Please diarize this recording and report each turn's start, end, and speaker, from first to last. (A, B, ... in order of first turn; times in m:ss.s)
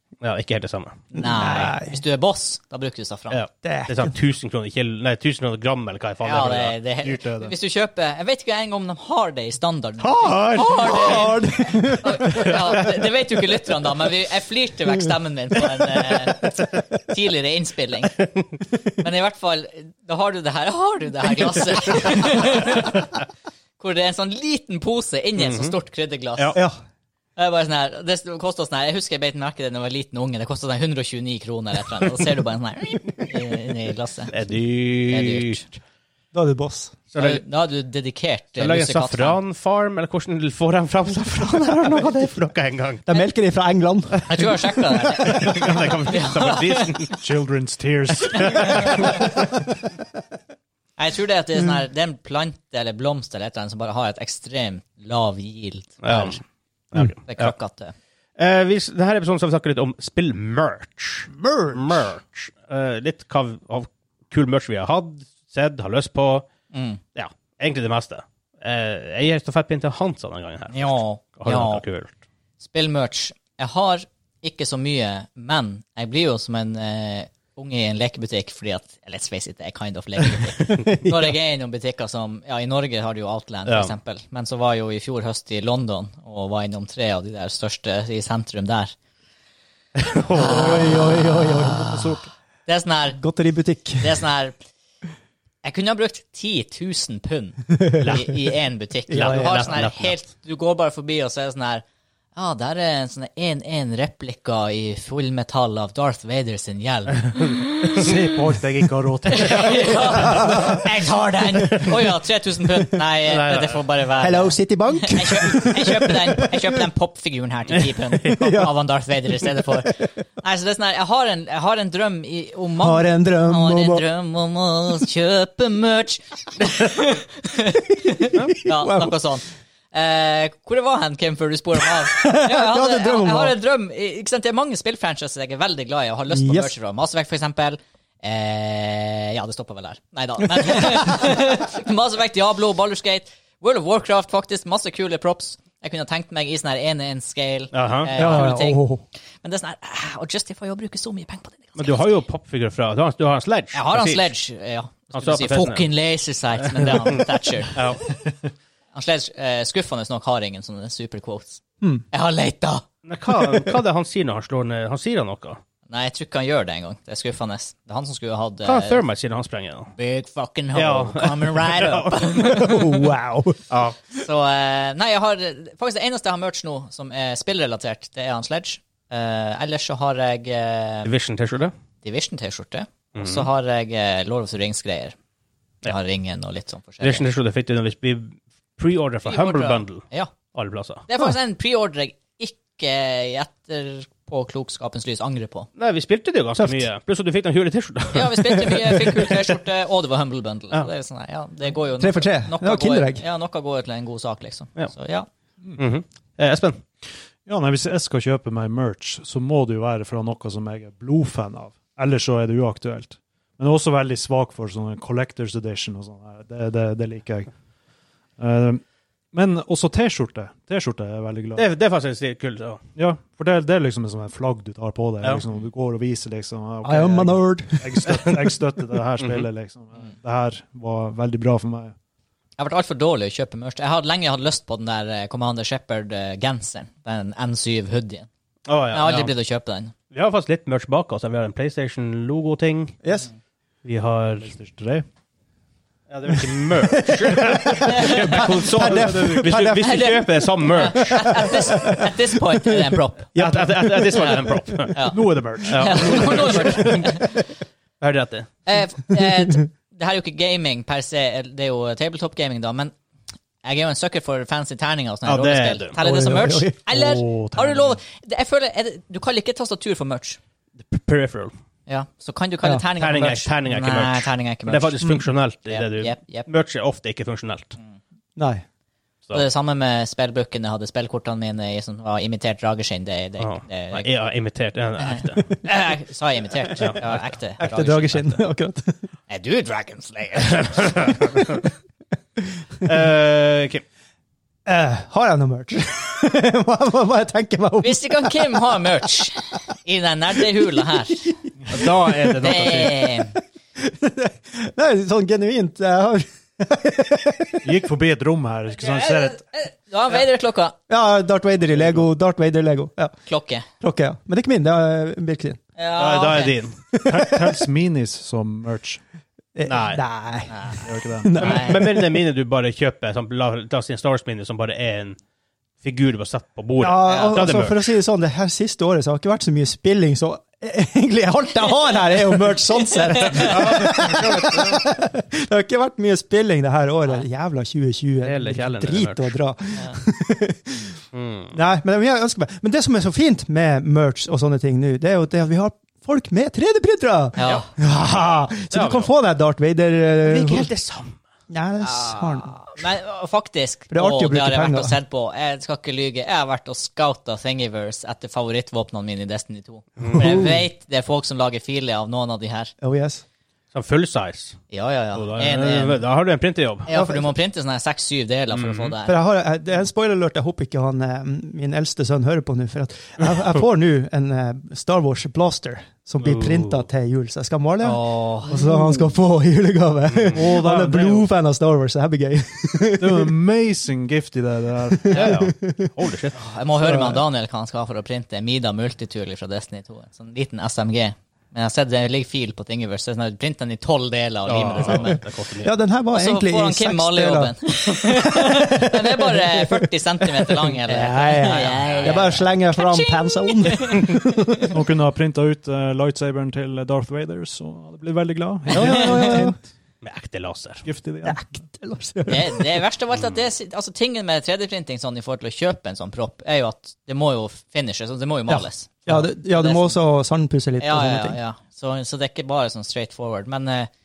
0:00.2-0:01.0 A
0:01.1-0:02.0 B
0:01.1-0:03.4 C
0:03.3-0:06.8 A
0:03.6-0:04.1 B
0:06.2-0:18.2 C
0:07.0-0:07.5 D
0:10.0-0:11.4 A
0:10.6-0:12.8 B
0:12.2-0:12.8 A
0:19.0-0:23.1 C
0:23.8-0:26.6 C
0:25.4-0:25.7 A
0:27.4-0:34.3 C
0:34.3-0:35.6 A
0:35.0-0:35.7 C
0:36.3-0:36.9 B
0:37.1-0:37.4 A
0:37.2-0:39.4 C
0:38.6-0:43.0 A
0:43.1-0:45.4 B
0:44.2-0:47.0 C
0:45.2-0:47.1 A
0:47.2-0:49.3 D
0:48.2-0:48.8 A
0:48.4-0:49.2 C
0:51.0-0:56.4 C
0:56.0-0:56.4 A
0:56.9-0:57.5 A
0:57.2-0:57.9 C
0:58.4-1:06.5 A
1:01.4-1:02.1 B
1:06.7-1:07.0 C
1:07.1-1:12.1 A
1:10.7-1:11.8 C
1:12.6-1:28.9 C
1:20.6-1:21.3 B
1:23.6-1:23.9 A
1:30.0-1:31.0 A
1:30.3-1:33.2 C
1:30.4-1:32.2 B
1:33.2-1:34.2 B
1:34.0-1:34.6 C
1:35.6-1:48.1 C
1:37.8-1:38.2 B
1:38.0-1:38.3 A
1:39.1-1:39.7 B
1:39.1-1:40.2 A
1:47.9-1:50.2 D
1:49.3-2:28.8 C
1:49.4-1:50.0 A
1:50.3-1:50.8 B
1:53.2-1:53.8 A
1:54.2-1:56.6 B
1:58.2-1:58.7 B
2:02.8-2:04.0 B
2:08.3-2:09.1 B
2:12.0-2:13.5 B
2:16.3-2:16.7 B
2:27.7-2:28.4 A
2:28.2-2:29.0 B
2:29.4-2:32.1 C
2:31.8-2:34.3 A
2:33.7-2:38.2 C
2:35.1-2:35.9 A
2:37.7-2:38.0 A
2:38.9-2:43.5 C
2:43.0-2:45.6 A
2:45.9-2:49.0 C
2:48.6-2:49.9 A
2:50.0-2:52.9 C
2:50.7-2:52.4 A
2:52.4-2:53.6 B
2:53.7-2:54.0 A
2:54.2-3:01.1 C
3:01.0-3:01.7 A
3:02.0-3:05.1 C
3:03.1-3:03.5 A
3:05.8-3:07.3 C
3:07.0-3:11.0 A
3:09.3-3:10.3 C
3:11.1-3:15.7 C
3:15.8-3:19.0 A
3:16.6-3:16.9 B
3:18.1-3:25.3 C
3:18.7-3:19.4 B
3:22.0-3:23.2 B
3:25.8-3:26.8 A
3:27.4-3:37.5 D
3:38.4-3:41.7 D
3:41.6-3:42.8 A
3:43.0-3:51.9 D
3:46.8-3:48.0 B
3:49.2-3:49.5 A
3:52.6-3:58.3 C
3:58.7-3:59.3 A
3:58.9-3:59.9 C
4:00.1-4:03.0 A
4:03.0-4:03.3 B
4:03.8-4:04.5 A
4:04.4-4:05.0 D
4:06.1-4:11.5 A
4:07.0-4:10.4 B
4:07.8-4:09.6 D
4:09.8-4:13.3 C
4:11.3-4:12.0 B
4:13.3-4:14.4 D
4:13.3-4:15.1 A
4:14.9-4:17.3 C
4:15.0-4:17.0 D
4:15.6-4:17.2 A
4:18.0-4:18.5 A
4:18.6-4:22.9 C
4:23.6-4:30.4 C
4:25.2-4:26.0 A
4:26.0-4:27.0 B
4:26.9-4:28.0 D
4:30.8-4:31.5 A
4:31.9-4:36.5 C
4:33.0-4:37.8 A
4:38.4-4:38.6 B
4:39.3-4:44.1 C
4:43.4-4:45.6 A
4:45.0-4:48.4 C
4:46.8-4:47.1 A
4:47.6-4:49.0 B
4:49.3-4:51.1 C
4:50.7-4:51.6 A
4:52.8-4:53.8 A
4:54.6-4:58.8 B
4:57.8-5:01.4 C
5:01.7-5:02.9 A
5:02.4-5:03.4 C
5:03.8-5:07.8 B
5:07.6-5:09.4 D
5:08.8-5:10.8 C
5:10.9-5:13.1 B
5:13.2-5:13.6 C
5:13.8-5:15.6 B
5:15.8-5:16.6 C
5:16.0-5:16.8 A
5:16.9-5:17.6 B
5:17.0-5:19.0 D
5:19.5-5:22.1 B
5:19.6-5:20.0 A
5:20.5-5:20.8 C
5:20.8-5:21.4 D
5:21.4-5:25.2 A
5:21.4-5:21.7 C
5:25.8-5:27.8 A
5:26.8-5:41.0 B
5:27.0-5:27.5 C
5:32.8-5:33.8 C
5:33.3-5:34.8 A
5:38.2-5:39.4 A
5:41.1-5:41.6 A
5:41.5-5:50.7 B
5:47.4-5:47.7 C
5:47.4-5:49.1 A
5:50.2-5:51.2 A
5:51.5-5:52.5 B
5:51.8-6:02.7 C
5:53.9-5:55.0 B
6:00.0-6:00.5 A
6:00.1-6:00.6 B
6:02.8-6:03.2 B
6:03.7-6:04.6 A
6:04.7-6:06.0 C
6:05.1-6:06.9 A
6:06.9-6:09.1 C
6:06.9-6:07.3 B
6:08.5-6:08.9 A
6:09.0-6:23.3 B
6:16.2-6:16.8 A
6:17.8-6:18.7 C
6:20.3-6:21.3 D
6:23.0-6:25.1 D
6:24.9-6:25.9 B
6:25.1-6:26.4 A
6:26.4-6:35.2 C
6:26.8-6:27.2 B
6:34.4-6:35.7 A
6:35.6-6:37.5 B
6:36.1-6:44.6 C
6:38.3-6:44.6 B
6:41.6-6:42.3 A
6:44.7-6:49.6 D
6:48.7-6:49.4 C
6:48.7-6:49.6 B
6:50.0-6:50.8 A
6:50.8-6:51.4 D
6:51.2-6:52.8 B
6:52.3-7:00.0 C
6:58.5-7:01.4 B
7:00.8-7:03.9 C